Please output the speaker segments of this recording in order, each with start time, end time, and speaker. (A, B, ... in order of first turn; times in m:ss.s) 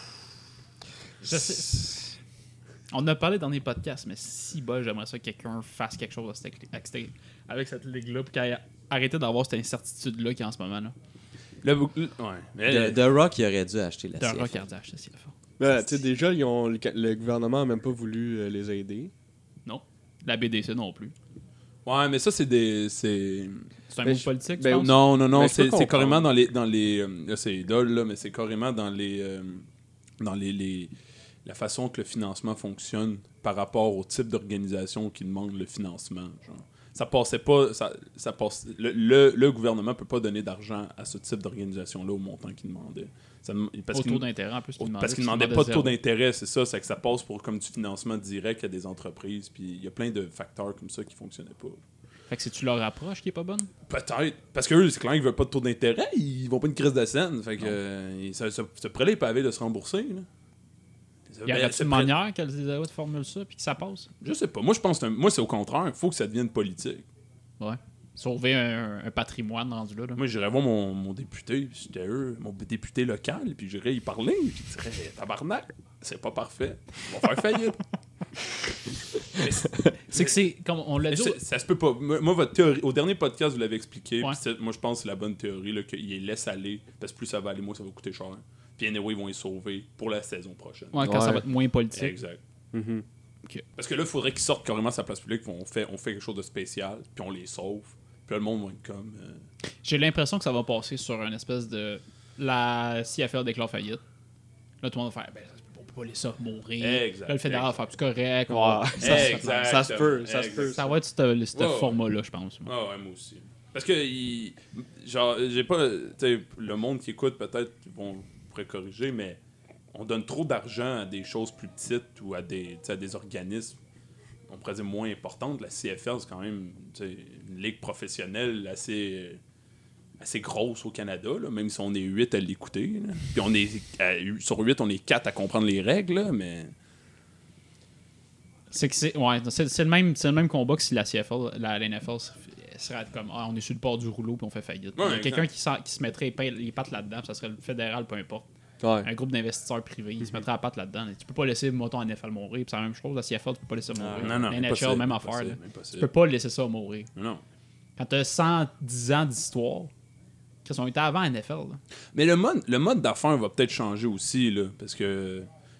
0:01.2-0:02.1 A
0:02.9-0:10.9 A
0:11.6-0:13.0 B
0:12.6-0:14.6 C
0:14.2-0:15.3 A
0:15.6-0:19.1 D
0:19.6-0:21.1 A
0:21.8-0:23.7 B
0:23.9-0:24.9 A
0:24.0-0:26.3 D
0:24.7-0:29.6 B
0:30.2-0:30.9 B
0:31.4-0:44.2 B
0:43.9-0:46.0 A
0:44.8-0:51.8 B
0:52.3-0:53.7 A
0:53.9-1:00.3 B
1:01.3-1:02.1 B
1:01.4-1:04.1 A
1:04.2-1:07.0 B
1:07.6-1:10.2 A
1:10.2-1:17.8 B
1:19.3-1:20.4 B
1:20.1-1:21.4 A
1:21.1-1:31.1 B
1:30.9-1:32.2 A
1:31.0-1:31.4 D
1:31.9-1:32.4 B
1:32.7-1:33.0 D
1:33.8-1:39.4 B
1:39.8-1:44.0 A
1:44.8-1:49.7 A
1:46.8-1:47.8 B
1:48.5-1:51.0 D
1:49.0-1:50.8 B
1:50.6-1:52.7 A
1:51.5-1:52.0 B
1:52.6-1:59.4 B
1:59.9-2:03.8 B
2:04.5-2:09.4 B
2:10.2-2:16.7 B
2:18.7-2:28.4 A
2:25.0-2:25.5 B
2:28.8-2:29.1 D
2:29.0-2:37.1 A
2:33.9-2:34.5 C
2:34.2-2:36.1 B
2:37.2-2:37.4 B
2:38.0-2:39.9 A
2:40.6-2:41.8 A
2:42.1-2:45.5 B